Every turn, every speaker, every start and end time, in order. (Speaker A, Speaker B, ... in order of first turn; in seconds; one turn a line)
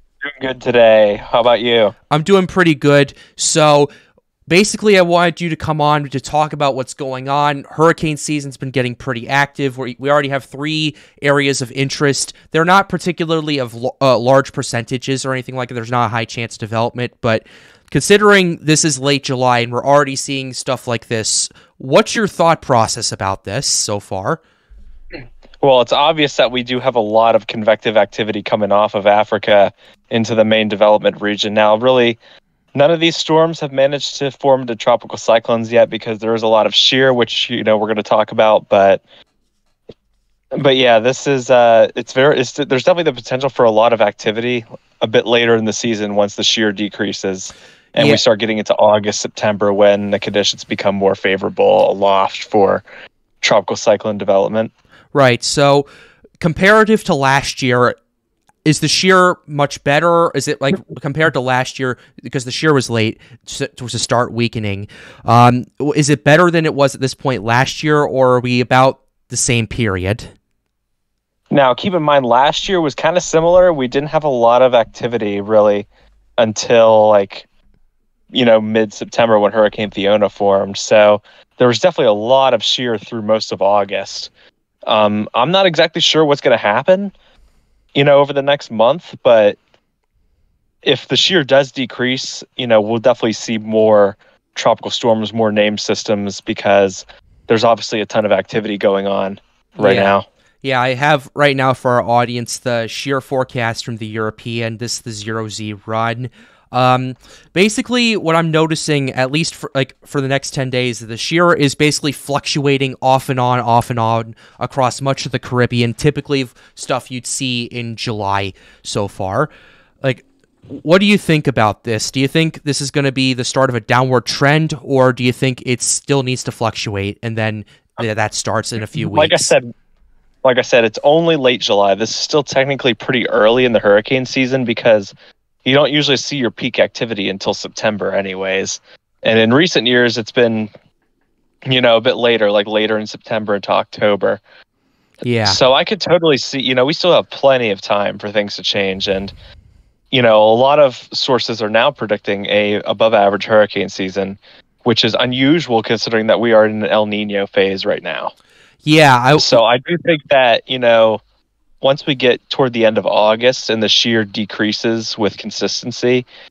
Speaker A: 0.2-1.9
Speaker B: 2.1-3.9
Speaker B: 4.5-24.4
Speaker A: 25.6-32.2
Speaker A: 32.7-39.0
Speaker A: 40.5-52.8
Speaker A: 53.4-54.7
Speaker B: 55.1-55.9
Speaker B: 56.4-58.0
Speaker B: 58.6-70.3
Speaker A: 71.5-75.9
Speaker A: 76.4-77.5
Speaker A: 78.3-84.3
Speaker A: 84.8-87.1
Speaker A: 87.9-89.6
Speaker A: 90.8-100.2
Speaker B: 99.8-100.1
Speaker B: 100.6-119.5
Speaker B: 120.0-129.5
Speaker A: 128.9-129.7
Speaker A: 130.4-135.1
Speaker A: 135.6-140.7
Speaker A: 141.7-144.4
Speaker B: 145.2-145.6
Speaker A: 145.4-149.3
Speaker A: 150.1-158.3
Speaker B: 158.8-159.5
Speaker A: 159.3-161.2
Speaker A: 161.8-166.3